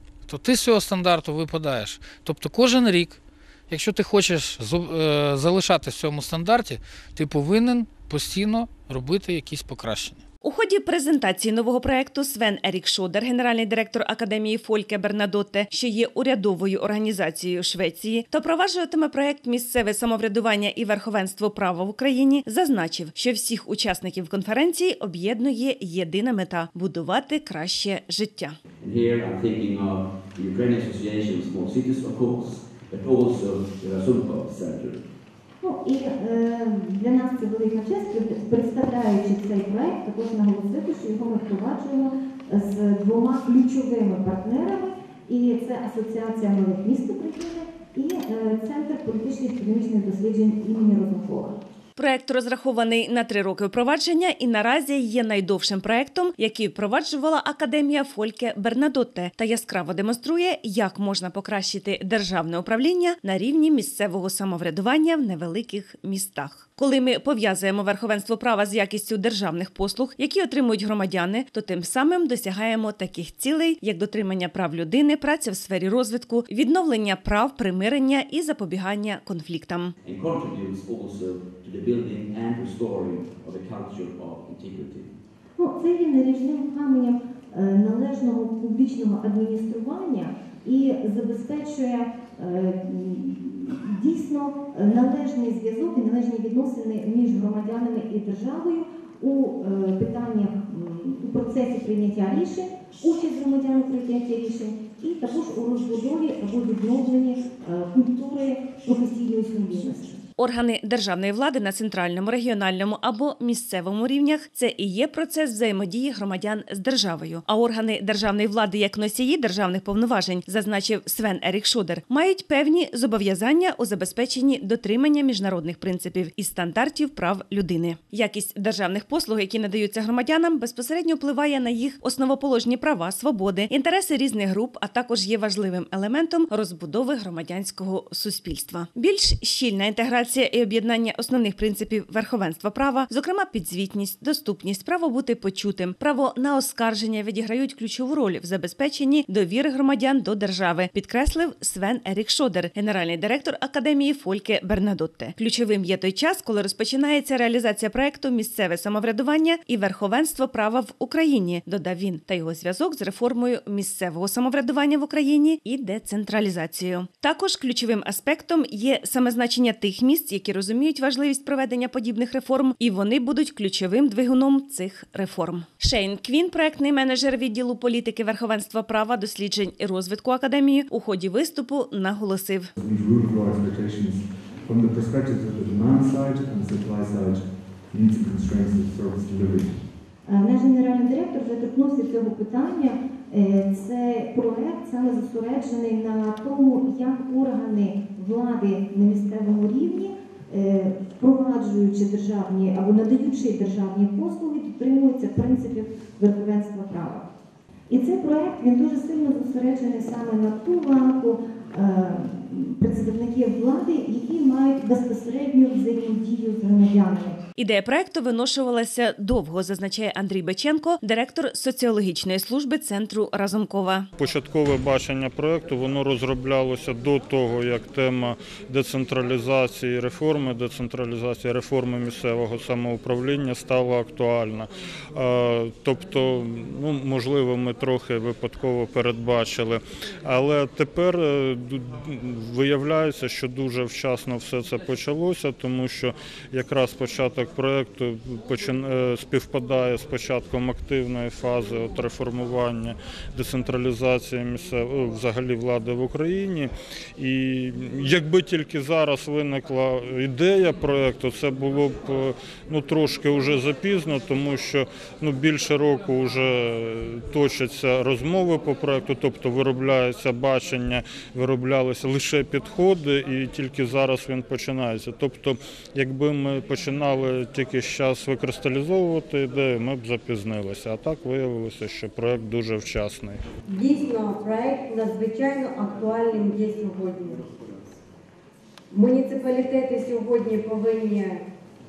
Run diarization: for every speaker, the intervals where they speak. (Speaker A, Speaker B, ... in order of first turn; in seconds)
Speaker A: 0.3-10.2
Speaker B: 10.4-28.6, 52.0-79.9, 110.4-182.7, 217.6-224.1
Speaker C: 28.8-35.0, 80.0-85.2
Speaker D: 35.6-51.6, 85.6-110.2, 190.3-207.2, 207.9-217.4
Speaker E: 182.8-189.9
Speaker F: 224.2-283.4
Speaker G: 283.7-287.5, 288.9-291.4